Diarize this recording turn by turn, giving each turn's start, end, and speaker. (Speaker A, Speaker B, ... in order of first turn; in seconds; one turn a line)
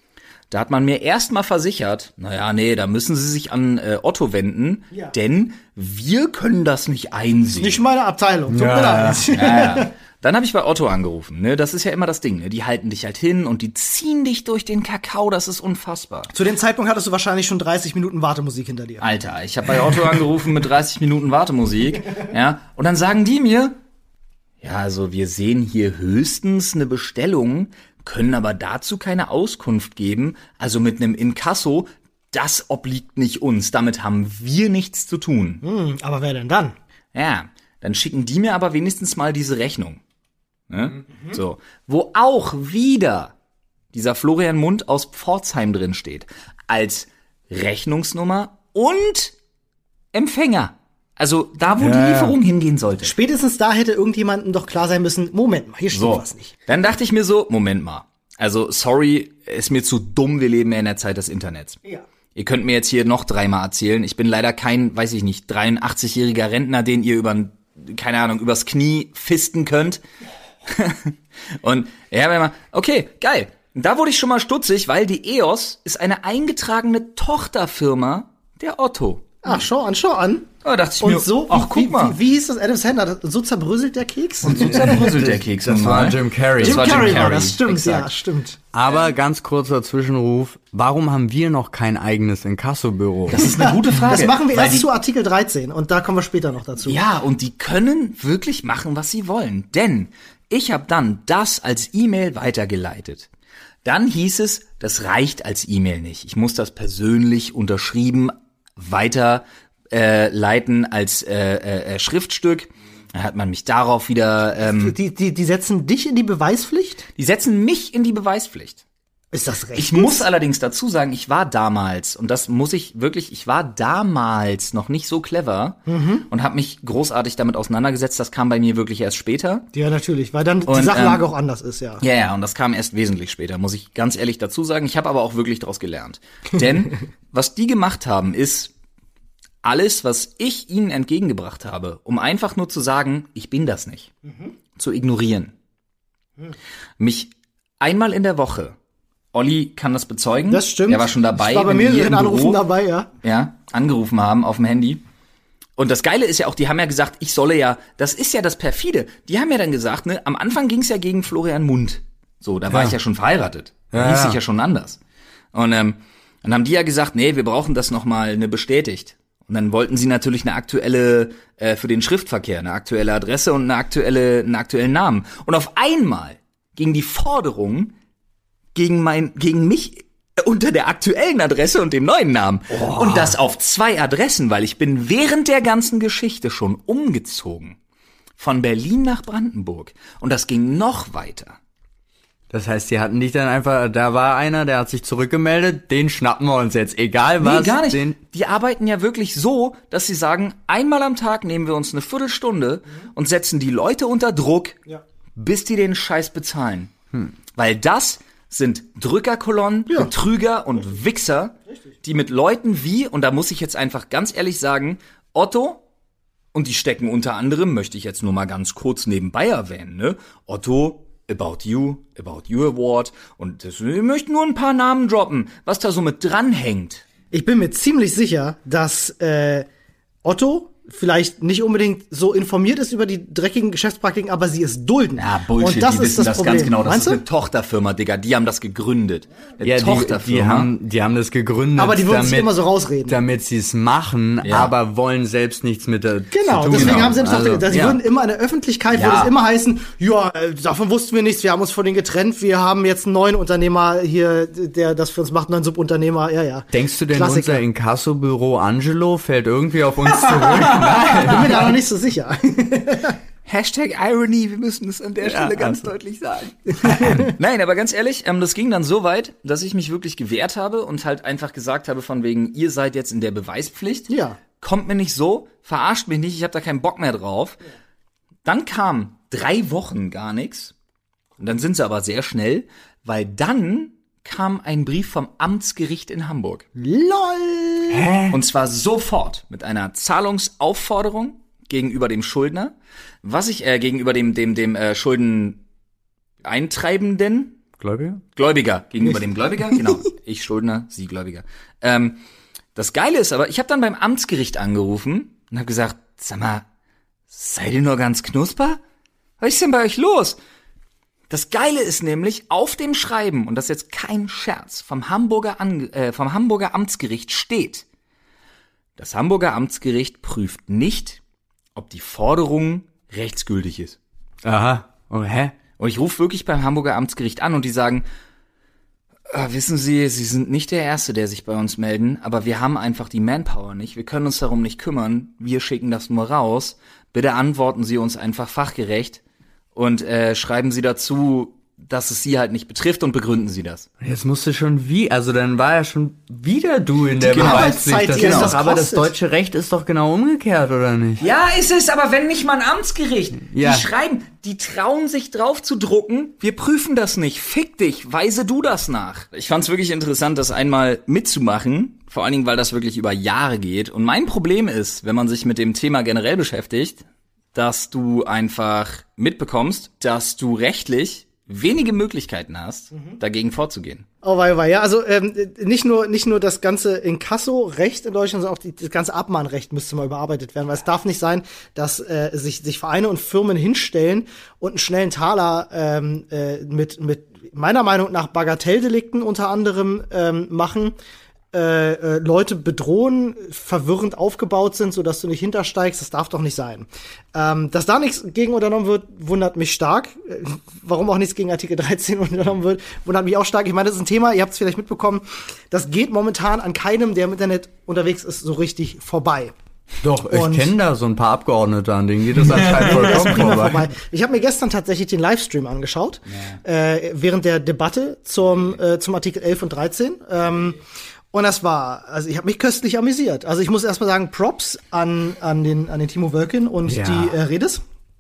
Speaker A: 0.5-7.8
Speaker B: 7.6-9.9
Speaker C: 8.5-9.3
Speaker A: 9.3-16.3
Speaker B: 16.3-19.1
Speaker A: 19.0-23.8
Speaker A: 24.6-35.6
Speaker B: 35.6-36.8
Speaker A: 37.1-40.0
Speaker A: 40.7-43.3
Speaker A: 43.9-49.4
Speaker A: 50.1-53.1
Speaker C: 51.8-52.4
Speaker B: 53.0-56.6
Speaker A: 55.9-61.8
Speaker A: 62.4-70.0
Speaker A: 70.7-79.6
Speaker B: 79.4-80.5
Speaker A: 80.6-82.2
Speaker B: 81.0-85.0
Speaker A: 84.5-88.1
Speaker C: 84.7-87.4
Speaker B: 86.6-88.6
Speaker C: 88.7-93.5
Speaker A: 93.3-94.9
Speaker B: 93.4-97.0
Speaker A: 96.8-103.3
Speaker A: 103.8-114.9
Speaker B: 114.6-117.1
Speaker A: 117.2-118.8
Speaker B: 119.3-120.3
Speaker A: 119.8-129.7
Speaker B: 125.9-126.3
Speaker B: 129.7-132.0
Speaker A: 130.7-131.2
Speaker A: 132.0-138.7
Speaker A: 139.6-144.2
Speaker A: 144.8-145.5
Speaker A: 147.0-148.8
Speaker A: 149.3-152.6
Speaker B: 150.5-153.1
Speaker A: 153.2-155.0
Speaker A: 155.8-165.0
Speaker C: 162.7-163.0
Speaker C: 163.9-164.4
Speaker A: 165.5-177.9
Speaker A: 178.8-187.8
Speaker C: 182.7-183.4
Speaker A: 188.4-191.6
Speaker C: 192.5-198.2
Speaker A: 197.4-204.8
Speaker A: 205.4-206.9
Speaker A: 207.6-215.8
Speaker A: 216.5-227.1
Speaker B: 227.3-229.7
Speaker B: 230.2-237.2
Speaker A: 235.2-240.7
Speaker C: 239.6-242.5
Speaker B: 241.8-243.2
Speaker C: 243.1-248.0
Speaker A: 244.4-244.7
Speaker B: 246.3-257.6
Speaker A: 246.7-247.1
Speaker A: 248.9-249.3
Speaker C: 256.7-261.6
Speaker A: 260.3-261.7
Speaker B: 261.1-263.2
Speaker A: 263.5-277.6
Speaker C: 265.2-265.9
Speaker B: 266.8-267.3
Speaker B: 274.1-274.4
Speaker A: 278.4-280.7
Speaker A: 281.4-286.7
Speaker B: 286.8-288.1
Speaker C: 287.9-288.4
Speaker A: 288.3-295.6
Speaker A: 296.4-297.6
Speaker C: 297.8-298.2
Speaker A: 298.4-302.2
Speaker A: 302.8-306.6
Speaker A: 307.3-308.8
Speaker A: 309.4-310.4
Speaker A: 311.3-317.9
Speaker A: 319.0-321.2
Speaker A: 321.8-324.0
Speaker C: 324.4-325.5
Speaker A: 325.8-328.1
Speaker A: 329.3-339.2
Speaker A: 339.8-343.9
Speaker C: 344.0-351.3
Speaker B: 347.2-349.1
Speaker A: 347.3-348.6
Speaker A: 351.2-367.0
Speaker C: 353.5-353.9
Speaker A: 367.5-374.1
Speaker B: 372.9-373.2
Speaker B: 374.2-390.9
Speaker B: 391.5-409.5
Speaker C: 410.0-413.8
Speaker B: 410.3-410.7
Speaker A: 412.5-413.1
Speaker B: 412.6-420.8
Speaker B: 421.3-427.8
Speaker C: 426.9-427.4